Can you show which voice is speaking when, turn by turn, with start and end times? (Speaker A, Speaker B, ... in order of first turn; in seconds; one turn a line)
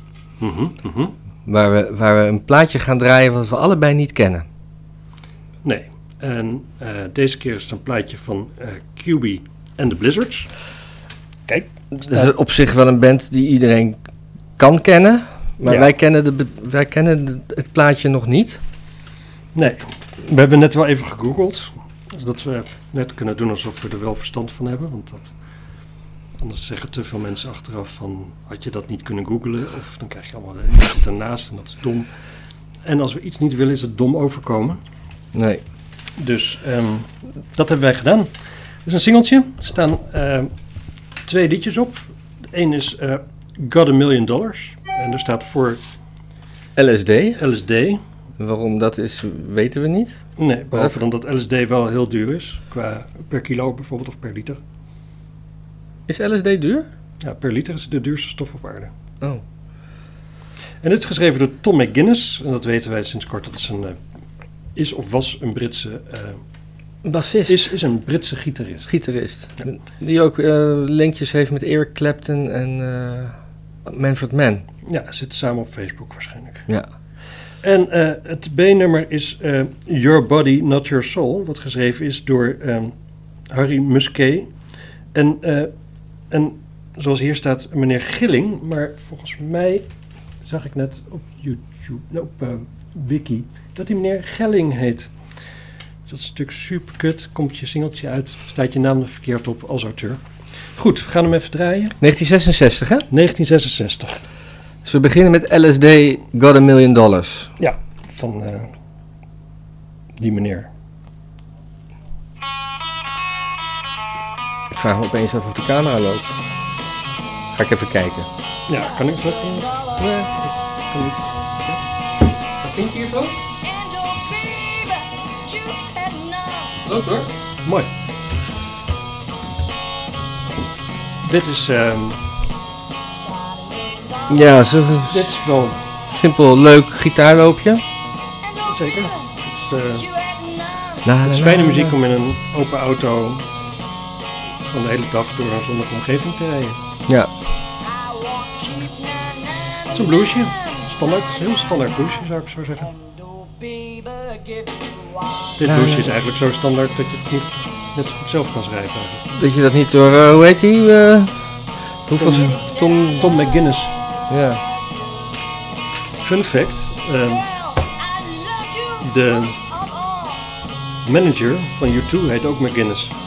Speaker A: 0.4-1.1
Speaker B: 1.4-4.5
Speaker A: 5.6-10.5
Speaker A: 11.5-12.3
Speaker B: 11.9-14.0
Speaker B: 14.6-18.6
Speaker A: 15.6-15.9
Speaker A: 19.5-25.3
Speaker A: 26.4-32.1
Speaker A: 32.8-34.8
Speaker B: 35.3-35.6
Speaker A: 36.2-38.3
Speaker A: 38.8-40.5
Speaker A: 41.2-45.8
Speaker B: 46.8-47.4
Speaker A: 47.4-48.0
Speaker B: 48.4-50.2
Speaker A: 50.4-54.6
Speaker B: 50.7-51.0
Speaker B: 56.1-56.9
Speaker A: 57.2-58.9
Speaker A: 60.8-64.0
Speaker A: 64.7-66.4
Speaker B: 67.0-67.7
Speaker A: 67.5-68.9
Speaker B: 68.9-73.3
Speaker B: 73.8-74.6
Speaker A: 74.8-76.7
Speaker A: 77.6-82.9
Speaker A: 83.5-84.5
Speaker A: 85.1-85.7
Speaker A: 86.3-89.8
Speaker A: 90.4-95.1
Speaker A: 96.1-100.2
Speaker A: 100.8-102.0
Speaker B: 102.0-103.1
Speaker A: 103.1-104.2
Speaker B: 104.8-107.5
Speaker A: 107.6-108.7
Speaker A: 110.2-110.7
Speaker B: 114.7-116.3
Speaker B: 117.5-118.3
Speaker A: 118.7-120.1
Speaker B: 120.0-120.3
Speaker A: 120.9-121.8
Speaker B: 122.6-123.3
Speaker B: 126.8-127.3
Speaker A: 131.2-132.2
Speaker B: 134.3-135.4
Speaker A: 135.1-135.8
Speaker B: 136.1-137.8
Speaker A: 138.6-140.1
Speaker B: 141.0-141.9
Speaker A: 141.2-143.4
Speaker A: 144.7-146.8
Speaker A: 149.9-152.9
Speaker A: 155.6-159.2
Speaker B: 155.6-156.1
Speaker B: 159.3-161.3
Speaker B: 162.1-163.3
Speaker A: 162.2-162.6
Speaker A: 163.2-163.9
Speaker B: 164.3-164.6
Speaker A: 166.2-167.5
Speaker A: 169.0-169.6
Speaker A: 171.0-173.1